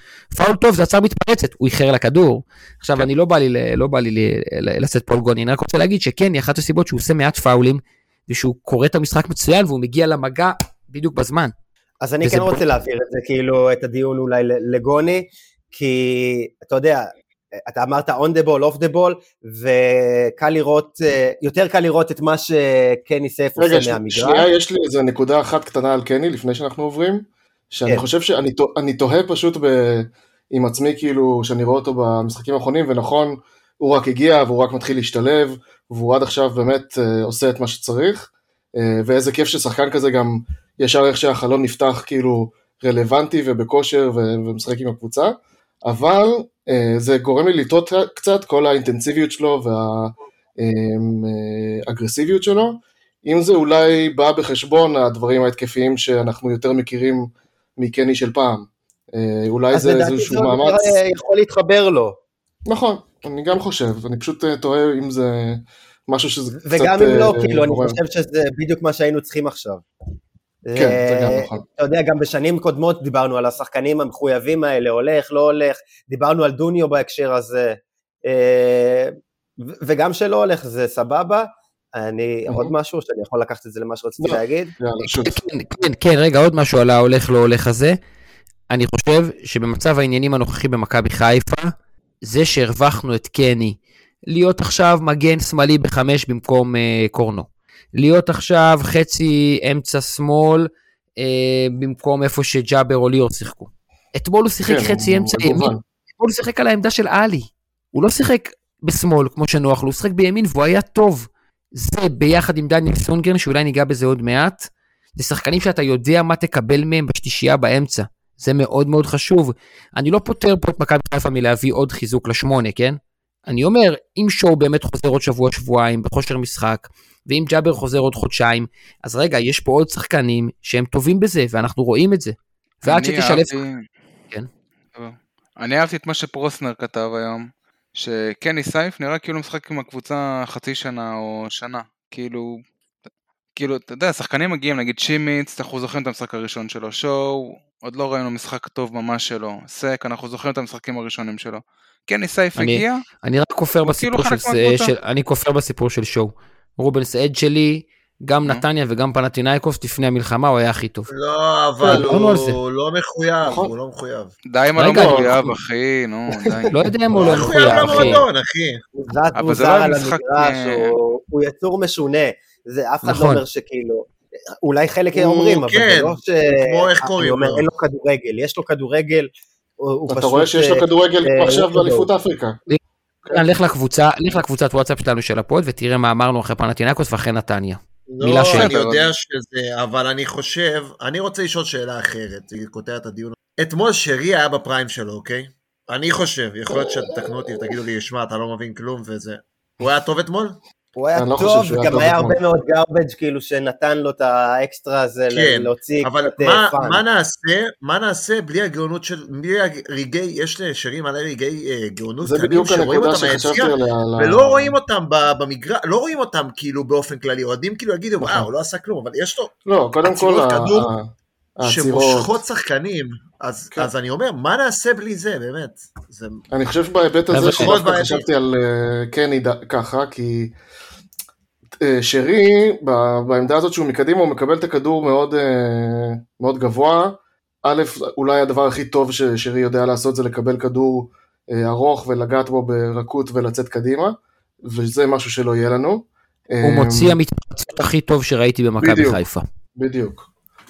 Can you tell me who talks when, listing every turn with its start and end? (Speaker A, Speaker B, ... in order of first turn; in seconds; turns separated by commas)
Speaker A: 0.3-11.5, Speaker B: 12.0-17.1, Speaker A: 12.2-12.6, Speaker B: 17.7-24.4, Speaker C: 23.6-45.3, Speaker C: 45.8-61.0, Speaker B: 59.7-62.1, Speaker C: 62.6-68.0, Speaker B: 66.7-69.8, Speaker B: 70.7-79.1, Speaker C: 70.7-71.6, Speaker B: 79.6-84.7, Speaker C: 82.5-82.7, Speaker C: 84.2-85.4, Speaker A: 85.1-88.0, Speaker A: 88.7-91.7, Speaker A: 92.2-93.8, Speaker A: 94.3-133.5, Speaker C: 104.7-105.8, Speaker D: 132.8-133.8, Speaker D: 134.9-137.4, Speaker D: 138.0-142.4, Speaker D: 143.6-153.0, Speaker A: 152.6-161.1, Speaker D: 153.8-154.9, Speaker E: 161.1-164.3, Speaker C: 161.8-162.1, Speaker A: 161.9-162.6, Speaker C: 163.4-163.7, Speaker D: 164.5-166.7, Speaker A: 164.8-165.5, Speaker C: 164.9-165.4, Speaker C: 166.4-166.9, Speaker A: 166.7-168.2, Speaker E: 167.1-168.8, Speaker B: 168.9-174.1, Speaker D: 169.3-170.9, Speaker A: 173.0-173.4, Speaker B: 174.6-179.3, Speaker E: 175.1-177.7, Speaker B: 179.8-182.1, Speaker C: 180.1-182.6, Speaker A: 183.3-188.7, Speaker C: 188.1-188.9, Speaker E: 188.2-200.6, Speaker D: 188.7-189.0, Speaker C: 196.7-197.7, Speaker B: 200.9-207.0, Speaker C: 201.2-202.4, Speaker E: 205.3-219.5, Speaker C: 212.2-214.8, Speaker C: 218.2-218.5, Speaker C: 219.7-222.4, Speaker E: 220.0-220.9, Speaker E: 221.6-226.4, Speaker C: 226.5-230.5, Speaker A: 227.3-227.7, Speaker E: 227.5-228.3, Speaker C: 231.8-247.2, Speaker A: 246.6-249.4, Speaker C: 248.8-249.2, Speaker C: 249.8-250.3